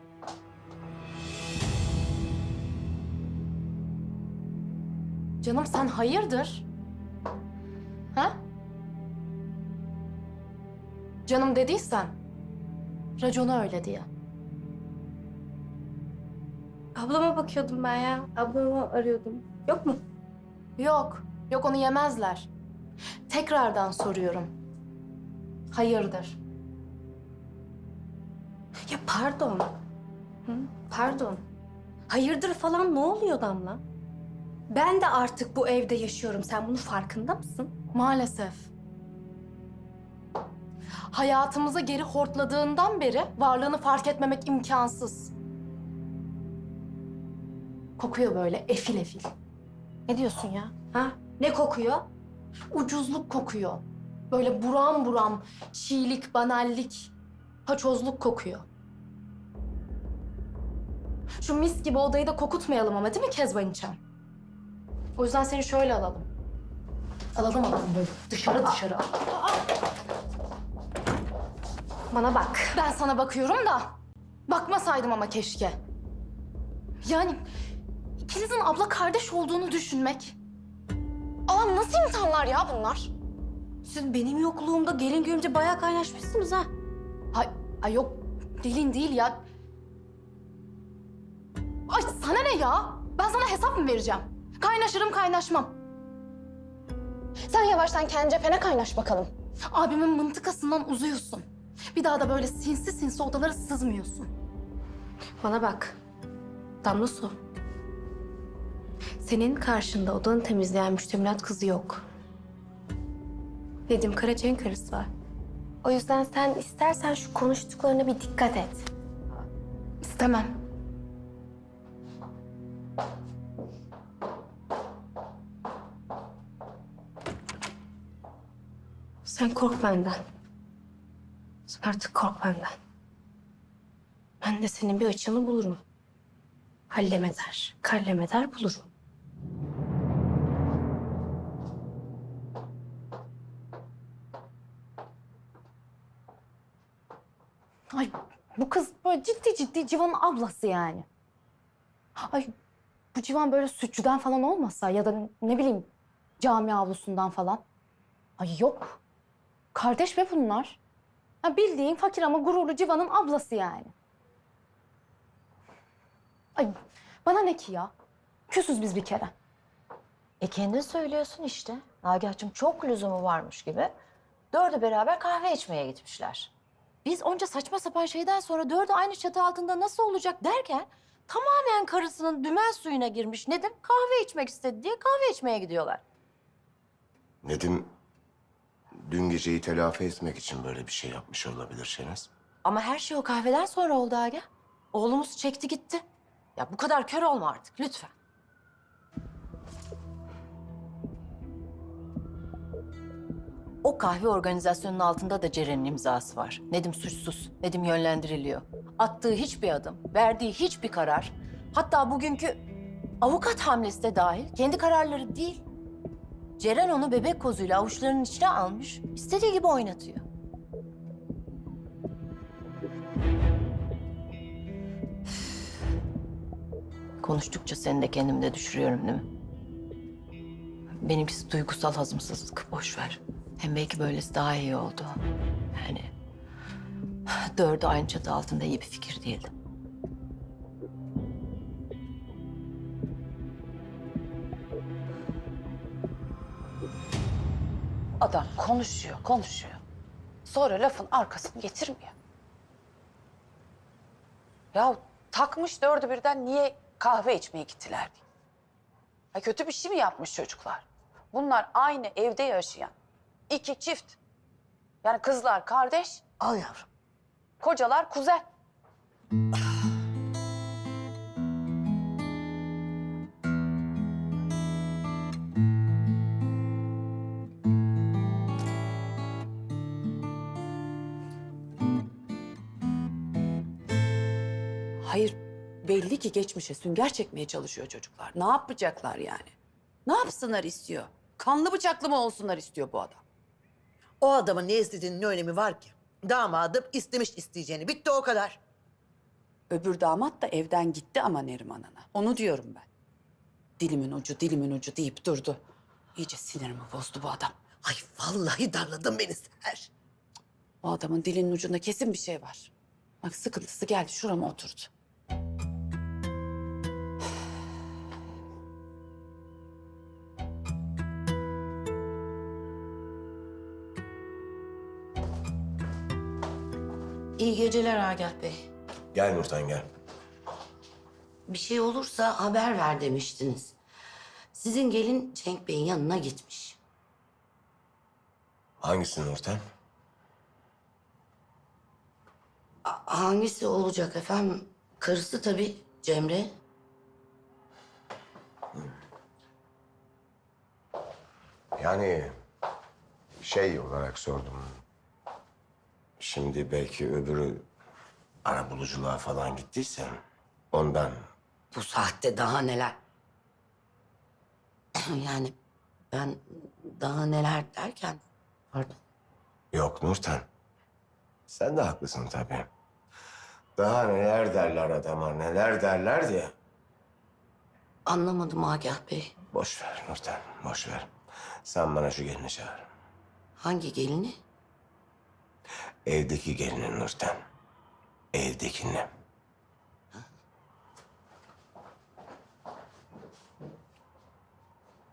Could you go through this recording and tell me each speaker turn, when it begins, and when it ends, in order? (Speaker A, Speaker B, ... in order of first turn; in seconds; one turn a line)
Speaker A: 5.4-6.7
Speaker A: 8.1-8.4
Speaker A: 11.2-12.2
Speaker A: 13.2-14.1
Speaker B: 16.9-20.0
Speaker A: 20.8-22.5
Speaker A: 23.3-24.5
Speaker A: 25.7-26.4
Speaker B: 28.9-29.7
Speaker B: 30.4-31.4
Speaker B: 32.1-33.8
Speaker B: 34.7-37.7
Speaker A: 37.9-38.7
Speaker A: 41.1-45.3
Speaker A: 48.0-49.3
Speaker B: 50.1-52.0
Speaker A: 52.7-57.1
Speaker A: 57.6-58.7
Speaker A: 61.4-64.0
Speaker A: 65.2-66.3
Speaker A: 67.3-69.3
Speaker B: 72.1-72.8
Speaker A: 72.8-74.0
Speaker A: 74.5-75.8
Speaker A: 77.0-77.4
Speaker A: 78.2-80.3
Speaker A: 81.5-83.1
Speaker B: 83.8-86.7
Speaker A: 87.3-89.4
Speaker A: 91.9-95.8
Speaker A: 97.4-104.3
Speaker B: 105.4-106.0
Speaker B: 106.8-107.4
Speaker B: 109.2-112.0
Speaker B: 113.9-115.1
Speaker B: 115.8-118.9
Speaker A: 120.0-120.5
Speaker B: 129.2-130.2
Speaker B: 131.7-132.7
Speaker B: 134.4-135.8
Speaker B: 136.9-138.9
Speaker A: 147.9-151.1
Speaker A: 152.2-152.5
Speaker A: 153.1-157.6
Speaker A: 158.4-159.0
Speaker A: 159.7-160.8
Speaker A: 161.4-163.9
Speaker A: 166.6-167.9
Speaker A: 168.5-169.3
Speaker C: 170.4-173.9
Speaker C: 174.5-176.5
Speaker C: 177.0-186.0
Speaker D: 187.4-187.9
Speaker D: 189.0-192.3
Speaker C: 192.6-196.0
Speaker C: 196.6-198.1
Speaker C: 203.8-212.6
Speaker C: 213.2-215.6
Speaker C: 216.6-220.2
Speaker C: 227.2-229.2
Speaker C: 231.0-235.2
Speaker C: 235.7-236.1
Speaker C: 237.5-239.5
Speaker E: 248.2-249.8
Speaker E: 250.4-252.1
Speaker E: 254.7-258.2
Speaker E: 259.3-262.9
Speaker E: 263.5-264.2
Speaker E: 265.0-266.2
Speaker F: 266.4-266.8
Speaker E: 267.6-268.4
Speaker E: 285.0-289.5
Speaker E: 290.1-293.2
Speaker G: 294.2-298.6
Speaker E: 299.7-302.8
Speaker E: 303.8-305.6
Speaker E: 306.2-307.5
Speaker G: 307.8-309.9
Speaker E: 310.8-312.7
Speaker E: 313.2-314.9
Speaker F: 327.4-328.7
Speaker D: 329.1-329.9
Speaker F: 331.5-333.8
Speaker F: 334.5-336.8
Speaker D: 338.8-339.6
Speaker F: 342.8-346.6
Speaker D: 351.8-352.3
Speaker D: 353.4-354.8
Speaker D: 356.2-357.6
Speaker D: 358.4-360.2
Speaker D: 360.7-361.2
Speaker F: 361.7-363.0
Speaker F: 365.0-365.5
Speaker F: 366.1-368.2
Speaker F: 368.7-369.0
Speaker D: 369.7-370.4
Speaker D: 371.5-372.7
Speaker D: 373.8-376.5
Speaker F: 378.1-379.3
Speaker D: 379.5-381.1
Speaker D: 381.6-382.9
Speaker F: 383.6-384.4
Speaker D: 386.1-387.4
Speaker D: 388.3-389.1